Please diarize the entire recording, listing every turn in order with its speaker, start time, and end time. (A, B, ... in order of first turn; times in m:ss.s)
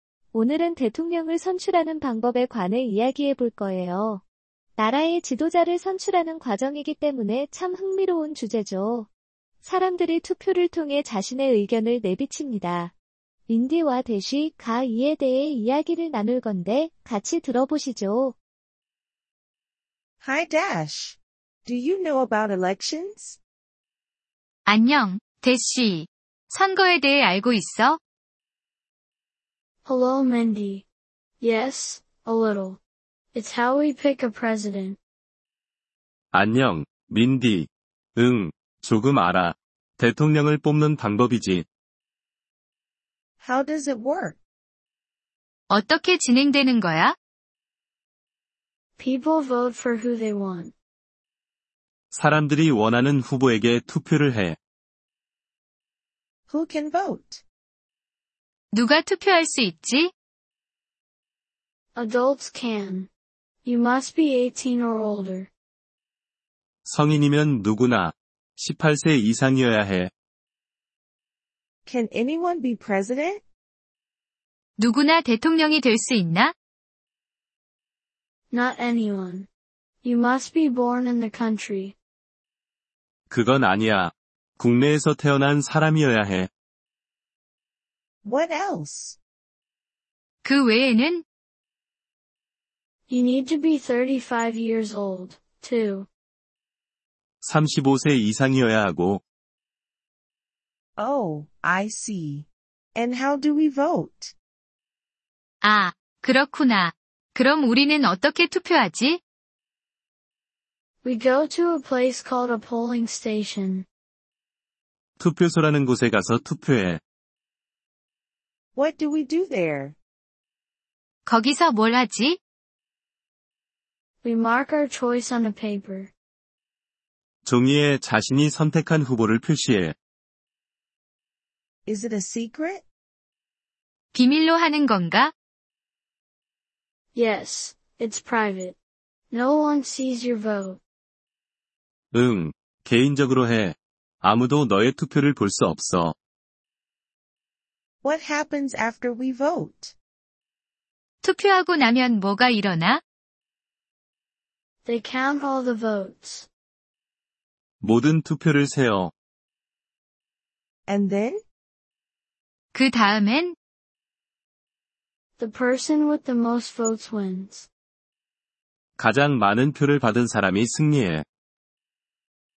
0:00.3-0:04.2 A
0:04.8-0:09.1 A
0:09.6-0:12.9 A
0:13.5-0:18.4 A
0:20.2-0:23.4 B
0:24.7-0:28.0 C
0:29.8-0:30.9 D
0:31.4-0:32.8 D
0:33.3-0:35.0 D
0:36.3-0:41.7 E
0:43.4-0:44.4 B
0:45.7-0:47.2 C
0:49.0-0:50.7 D
0:52.1-0:54.6 E
0:56.5-0:57.4 B
0:58.7-1:00.1 C
1:02.0-1:03.1 D
1:03.6-1:05.5 D
1:06.8-1:10.1 E
1:11.9-1:13.4 B
1:14.8-1:16.5 C
1:18.5-1:19.5 D
1:20.0-1:22.0 D
1:23.3-1:26.5 E
1:28.2-1:29.2 B
1:30.4-1:31.2 C
1:33.1-1:36.1 D
1:37.4-1:39.2 E
1:41.0-1:44.4 B
1:45.6-1:49.2 C
1:51.0-1:53.9 D
1:55.2-1:57.0 E
1:58.8-2:00.0 B
2:01.3-2:02.4 C
2:04.2-2:06.1 D
2:07.4-2:10.0 E
2:11.9-2:12.8 B
2:14.1-2:15.3 C
2:17.1-2:18.8 D
2:19.3-2:20.8 D
2:22.1-2:26.2 E
2:28.0-2:30.0 B
2:31.2-2:33.0 C
2:34.8-2:36.5 D
2:37.8-2:39.1 E
2:40.9-2:41.4 B
2:42.7-2:43.6 C
2:45.4-2:47.7 D
2:49.0-2:51.2 E